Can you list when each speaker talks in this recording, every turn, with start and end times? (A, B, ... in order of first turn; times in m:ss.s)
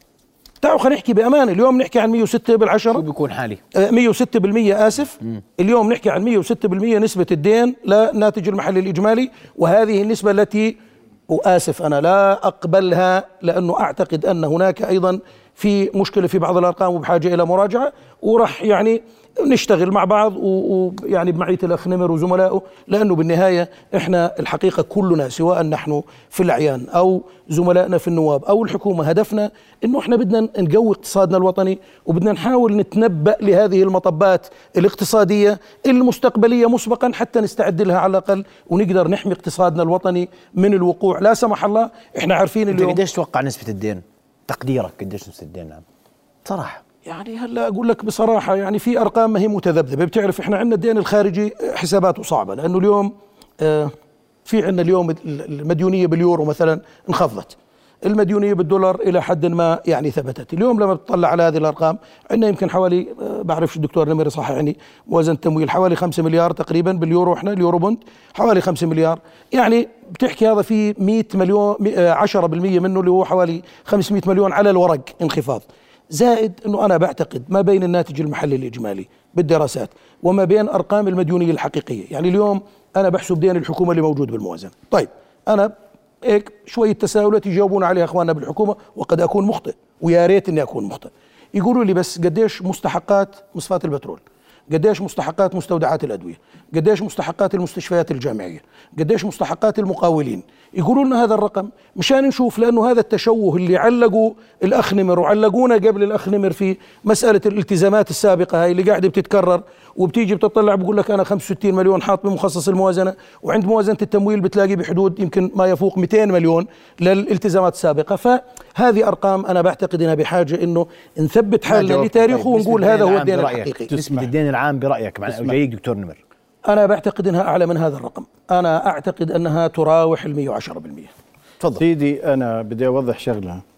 0:00.6-0:03.0 A
0:02.9-0:03.6 B
0:03.7-0:10.8 A
0:11.3-0:43.0 A
0:42.7-0:45.8 B
0:46.4-0:46.8 B
0:47.0-0:53.9 A
0:54.4-2:03.9 A
2:01.7-2:06.2 B
2:01.8-2:02.2 C
2:03.9-2:04.3 C
2:05.3-2:05.6 C
2:06.6-2:11.1 A
2:11.8-2:13.6 C